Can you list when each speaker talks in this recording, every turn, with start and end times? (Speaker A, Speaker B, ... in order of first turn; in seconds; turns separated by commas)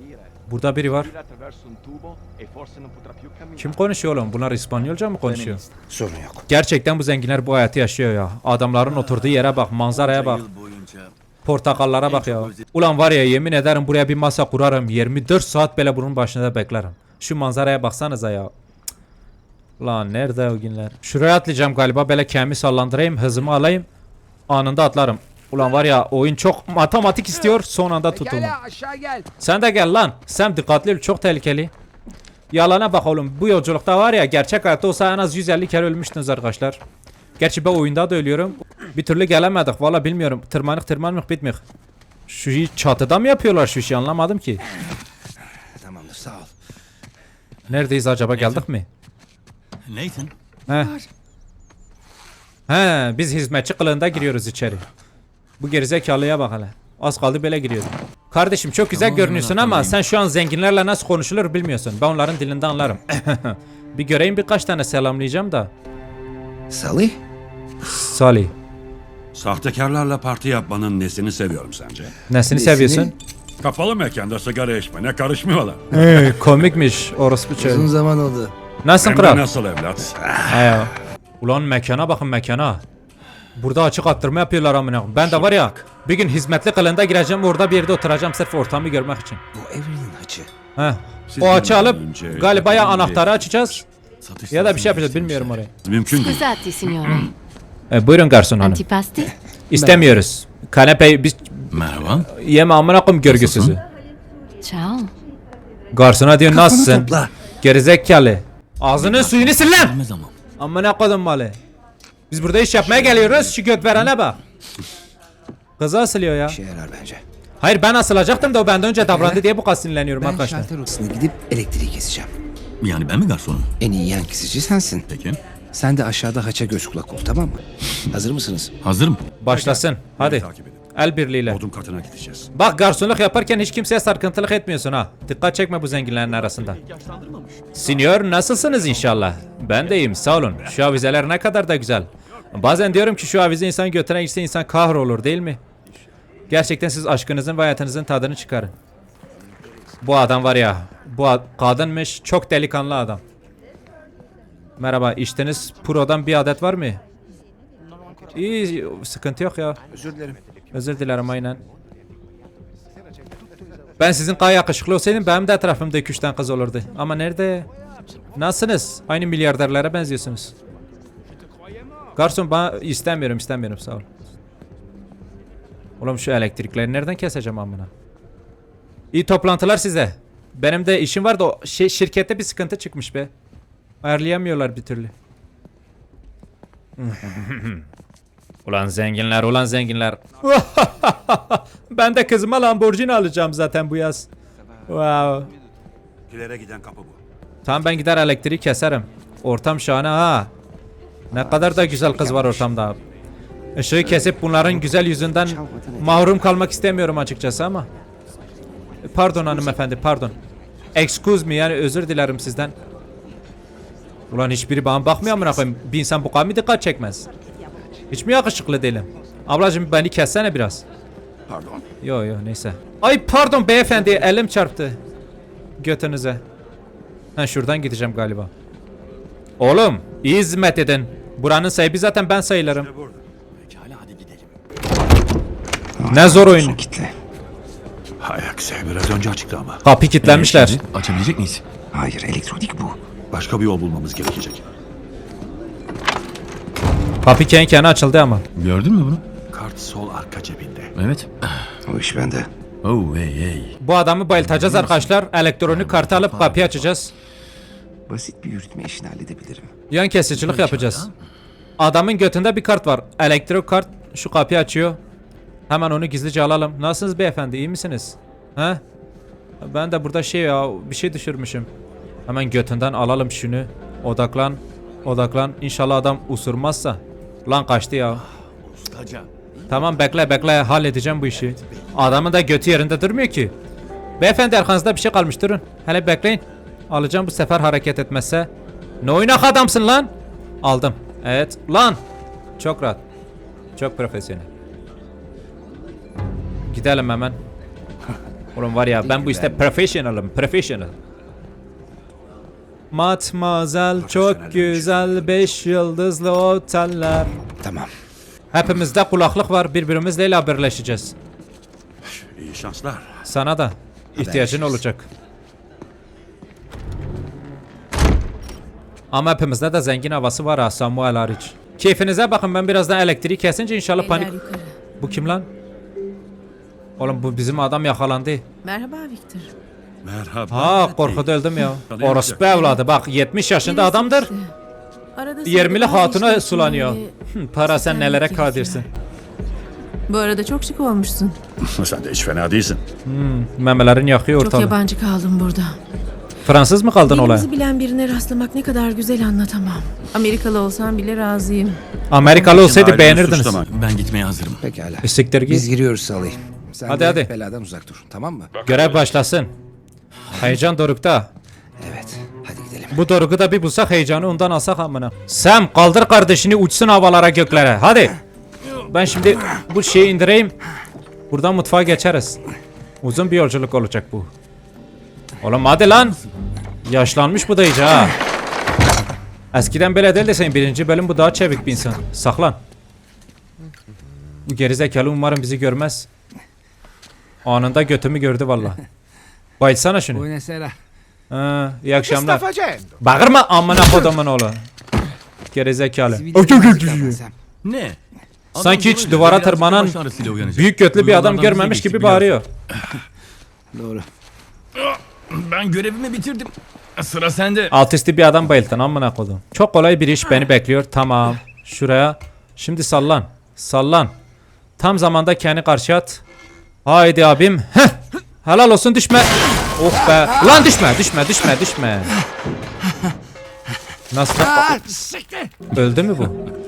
Speaker A: 0.5-1.1, Speaker A: 3.6-5.6, Speaker B: 5.2-5.6, Speaker C: 5.9-6.5, Speaker A: 6.5-10.4, Speaker B: 8.9-11.1, Speaker A: 11.4-18.5, Speaker B: 11.8-12.7, Speaker A: 19.8-23.9, Speaker A: 24.5-28.6, Speaker C: 28.1-29.3, Speaker A: 29.4-31.7, Speaker A: 32.5-36.8, Speaker A: 37.4-41.6, Speaker A: 42.3-44.6, Speaker C: 45.8-46.5, Speaker A: 47.7-48.9, Speaker B: 48.4-48.6, Speaker B: 49.9-50.3, Speaker A: 52.7-54.9, Speaker A: 55.6-65.7, Speaker B: 58.9-60.0, Speaker C: 66.7-67.2, Speaker A: 67.9-68.5, Speaker D: 69.3-72.1, Speaker A: 72.3-73.2, Speaker C: 72.5-73.1, Speaker D: 73.6-75.9, Speaker A: 75.9-77.9, Speaker C: 77.6-78.5, Speaker A: 78.8-79.4, Speaker D: 79.0-80.8, Speaker A: 80.5-82.8, Speaker A: 83.6-89.4, Speaker C: 89.5-90.5, Speaker A: 90.8-93.8, Speaker D: 91.3-93.4, Speaker B: 94.2-95.6, Speaker A: 94.5-95.7, Speaker D: 95.8-96.5, Speaker E: 96.1-97.3, Speaker A: 97.9-98.8, Speaker E: 98.6-99.3, Speaker A: 99.7-101.7, Speaker C: 99.7-100.2, Speaker B: 101.7-102.3, Speaker A: 102.3-103.8, Speaker B: 103.3-103.8, Speaker E: 104.6-105.1, Speaker A: 105.9-107.1, Speaker C: 106.5-107.3, Speaker A: 107.6-110.0, Speaker B: 109.0-110.4, Speaker A: 110.6-111.6, Speaker A: 112.3-114.4, Speaker A: 115.8-116.6, Speaker C: 116.5-117.2, Speaker A: 117.6-120.7, Speaker C: 119.0-119.5, Speaker C: 120.2-122.3, Speaker B: 122.8-123.7, Speaker C: 123.8-125.1, Speaker B: 125.1-125.4, Speaker C: 125.7-128.7, Speaker B: 128.8-129.2, Speaker A: 129.4-131.6, Speaker D: 129.5-130.8, Speaker D: 131.5-132.5, Speaker A: 132.5-136.8, Speaker B: 136.4-137.9, Speaker A: 137.8-145.6, Speaker A: 146.5-148.7, Speaker A: 150.0-153.2, Speaker A: 154.8-157.0, Speaker A: 158.3-159.8, Speaker C: 159.9-160.4, Speaker A: 160.7-161.6, Speaker A: 164.0-167.7, Speaker A: 168.4-170.5, Speaker A: 172.2-174.1, Speaker A: 176.0-177.9, Speaker A: 179.1-183.3, Speaker A: 184.0-185.1, Speaker A: 187.0-187.8, Speaker A: 188.7-194.3, Speaker A: 194.9-195.5, Speaker D: 196.3-197.2, Speaker A: 197.7-200.5, Speaker C: 201.3-202.7, Speaker A: 201.3-203.0, Speaker A: 203.8-207.9, Speaker C: 204.1-206.5, Speaker A: 209.1-210.3, Speaker A: 210.9-212.7, Speaker A: 214.3-217.3, Speaker A: 218.1-220.8, Speaker A: 222.0-225.0, Speaker A: 225.8-226.4, Speaker A: 227.4-228.5, Speaker A: 229.6-232.9, Speaker D: 232.8-233.2, Speaker B: 233.5-234.5, Speaker C: 236.0-237.1, Speaker A: 236.1-236.8, Speaker D: 238.2-239.8, Speaker A: 239.8-240.8, Speaker B: 240.2-241.6, Speaker C: 241.9-243.0, Speaker D: 243.3-244.7, Speaker A: 247.2-248.4, Speaker B: 248.6-249.2, Speaker D: 249.5-250.9, Speaker B: 251.0-251.6, Speaker C: 251.9-252.5, Speaker B: 252.8-253.8, Speaker A: 253.8-257.1, Speaker B: 254.4-255.1, Speaker B: 255.7-256.9, Speaker C: 258.1-259.7, Speaker A: 259.9-261.1, Speaker B: 260.3-261.1, Speaker A: 261.8-265.0, Speaker A: 265.7-268.8, Speaker A: 269.6-271.7, Speaker A: 272.3-278.2, Speaker B: 278.6-279.3, Speaker C: 279.6-280.5, Speaker A: 279.7-283.5, Speaker A: 284.2-288.5, Speaker A: 289.0-290.1, Speaker A: 290.6-292.0, Speaker A: 292.6-293.0, Speaker A: 293.8-294.5, Speaker A: 296.7-297.4, Speaker A: 298.6-300.9, Speaker C: 299.0-299.7, Speaker A: 302.9-307.3, Speaker D: 304.0-305.4, Speaker C: 307.6-307.9, Speaker A: 308.5-311.1, Speaker D: 312.1-313.1, Speaker A: 313.3-315.1, Speaker C: 314.2-314.8, Speaker A: 319.1-324.4, Speaker E: 324.0-324.8, Speaker A: 325.0-325.5, Speaker A: 327.0-328.4, Speaker E: 328.6-329.5, Speaker D: 330.0-331.3, Speaker A: 330.5-334.3, Speaker D: 331.9-332.6, Speaker E: 332.5-332.8, Speaker E: 333.6-334.5, Speaker E: 335.1-337.1, Speaker A: 335.5-338.9, Speaker E: 337.7-338.9, Speaker E: 340.1-341.4, Speaker D: 341.6-342.8, Speaker A: 343.1-344.8, Speaker E: 344.4-345.8, Speaker A: 346.4-347.5, Speaker E: 347.1-351.8, Speaker A: 352.1-353.6, Speaker D: 352.3-353.7, Speaker B: 353.7-354.6, Speaker C: 354.6-358.5, Speaker A: 355.0-355.7, Speaker A: 356.9-357.3, Speaker A: 358.6-359.5, Speaker A: 360.3-361.3, Speaker C: 361.8-363.0, Speaker A: 362.9-368.2, Speaker A: 368.9-370.5, Speaker A: 371.3-372.4, Speaker A: 373.0-374.3, Speaker A: 375.4-376.2, Speaker A: 376.9-378.1, Speaker A: 379.5-382.6, Speaker A: 384.5-386.1, Speaker A: 387.4-388.8, Speaker A: 389.6-390.3, Speaker C: 390.1-390.8, Speaker A: 391.3-392.4, Speaker C: 392.0-392.9, Speaker A: 393.0-394.6, Speaker A: 395.5-397.2, Speaker C: 396.1-397.3, Speaker B: 397.6-398.0, Speaker B: 398.5-402.4, Speaker A: 398.6-400.0, Speaker A: 400.5-402.4, Speaker C: 403.7-404.1, Speaker B: 404.8-407.7, Speaker A: 407.7-414.1, Speaker A: 414.8-416.2, Speaker A: 416.9-422.1, Speaker A: 424.1-424.8, Speaker C: 424.6-425.3, Speaker A: 425.7-426.4